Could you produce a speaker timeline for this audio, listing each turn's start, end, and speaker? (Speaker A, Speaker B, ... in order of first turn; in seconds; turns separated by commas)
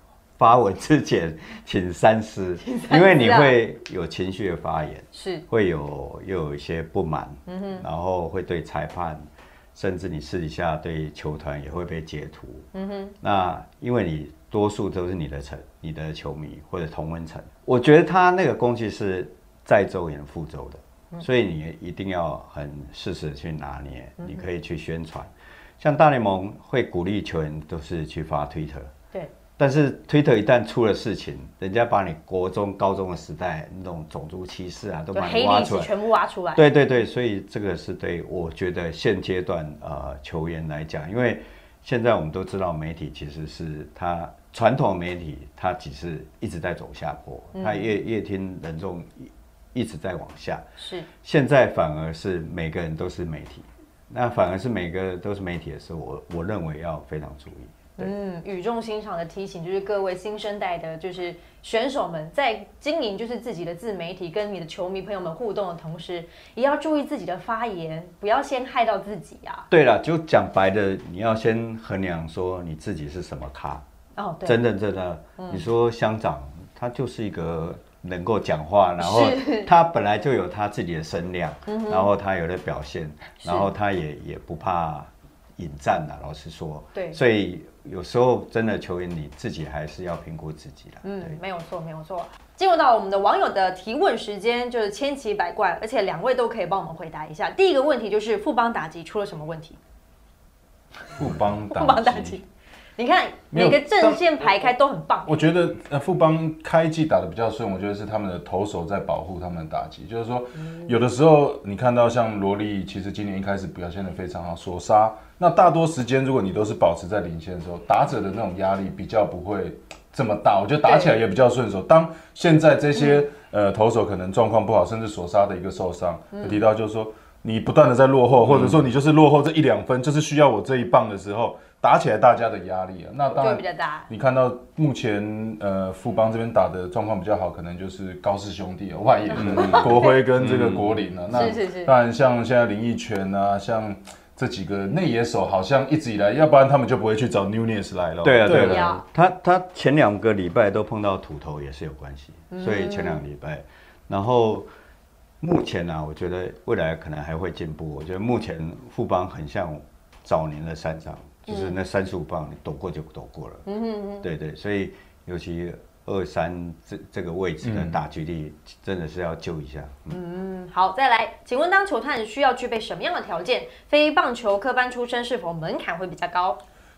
Speaker A: 0.4-12.7, Speaker B: 2.6-3.6, Speaker B: 5.1-5.5, Speaker B: 7.5-7.8, Speaker B: 12.7-13.2, Speaker A: 13.2-28.9, Speaker A: 29.6-35.9, Speaker B: 35.1-36.6, Speaker A: 36.5-50.7, Speaker B: 47.5-47.9, Speaker B: 50.8-51.1, Speaker A: 51.2-58.1, Speaker B: 58.0-69.7, Speaker A: 69.7-73.8, Speaker B: 74.2-74.6, Speaker A: 74.5-91.4, Speaker B: 75.4-75.6, Speaker B: 79.0-79.7, Speaker B: 81.7-82.1, Speaker B: 83.4-83.7, Speaker B: 91.0-99.8, Speaker C: 101.2-102.4, Speaker B: 101.7-102.4, Speaker B: 103.0-105.4, Speaker C: 103.5-104.5, Speaker C: 105.3-148.9, Speaker B: 110.6-110.9, Speaker B: 120.8-121.2, Speaker B: 123.0-123.2, Speaker B: 126.3-126.6, Speaker A: 128.4-128.8, Speaker B: 133.3-134.1, Speaker B: 139.3-140.2, Speaker A: 139.3-141.0, Speaker B: 141.3-141.9, Speaker A: 148.2-154.7, Speaker B: 148.5-149.0, Speaker B: 152.5-153.2, Speaker A: 155.4-163.7, Speaker B: 161.5-161.8, Speaker B: 163.7-164.3, Speaker A: 164.2-170.2, Speaker C: 167.6-168.0, Speaker B: 170.1-176.6